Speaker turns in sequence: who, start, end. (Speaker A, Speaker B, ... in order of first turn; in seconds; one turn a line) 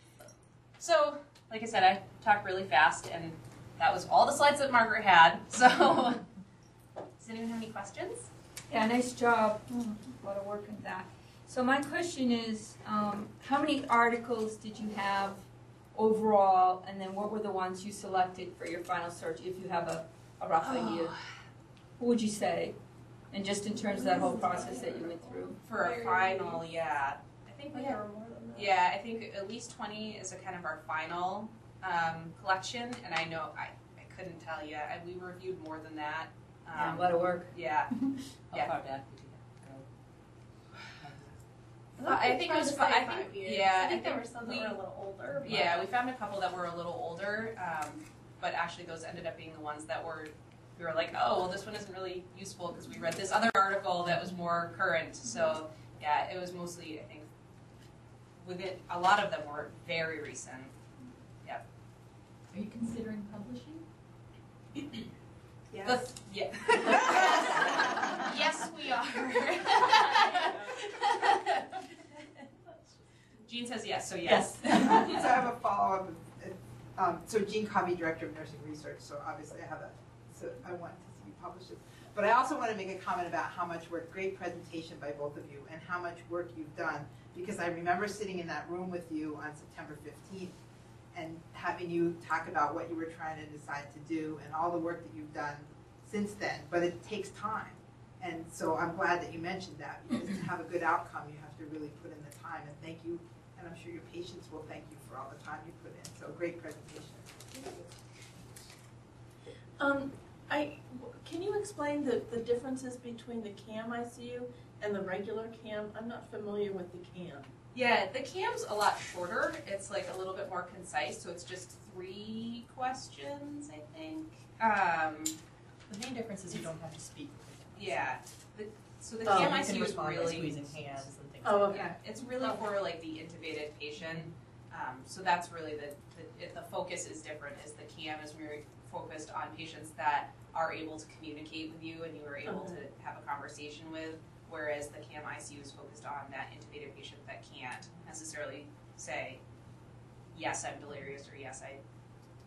Speaker A: 0.8-6.2
Speaker A: 7.2-8.3
Speaker B: 8.7-21.1
Speaker A: 20.6-21.2
Speaker B: 22.0-22.8
Speaker B: 23.3-25.6
Speaker C: 23.9-26.6
Speaker A: 25.6-28.0
Speaker C: 27.7-28.7
Speaker A: 28.5-37.9
Speaker B: 36.7-37.5
Speaker D: 38.5-39.9
Speaker D: 41.0-41.4
Speaker C: 42.0-45.7
Speaker A: 42.0-44.8
Speaker D: 45.3-45.7
Speaker A: 45.4-57.3
Speaker A: 58.4-60.7
Speaker B: 62.5-63.8
Speaker A: 65.8-71.8
Speaker A: 73.4-75.3
Speaker E: 74.7-90.6
Speaker E: 91.1-107.8
Speaker F: 109.8-117.5
Speaker A: 117.7-125.3
Speaker G: 125.9-128.1
Speaker A: 127.8-131.0
Speaker G: 129.2-131.9
Speaker F: 129.3-129.6
Speaker F: 131.4-131.9
Speaker A: 131.7-149.4
Speaker A: 150.3-151.8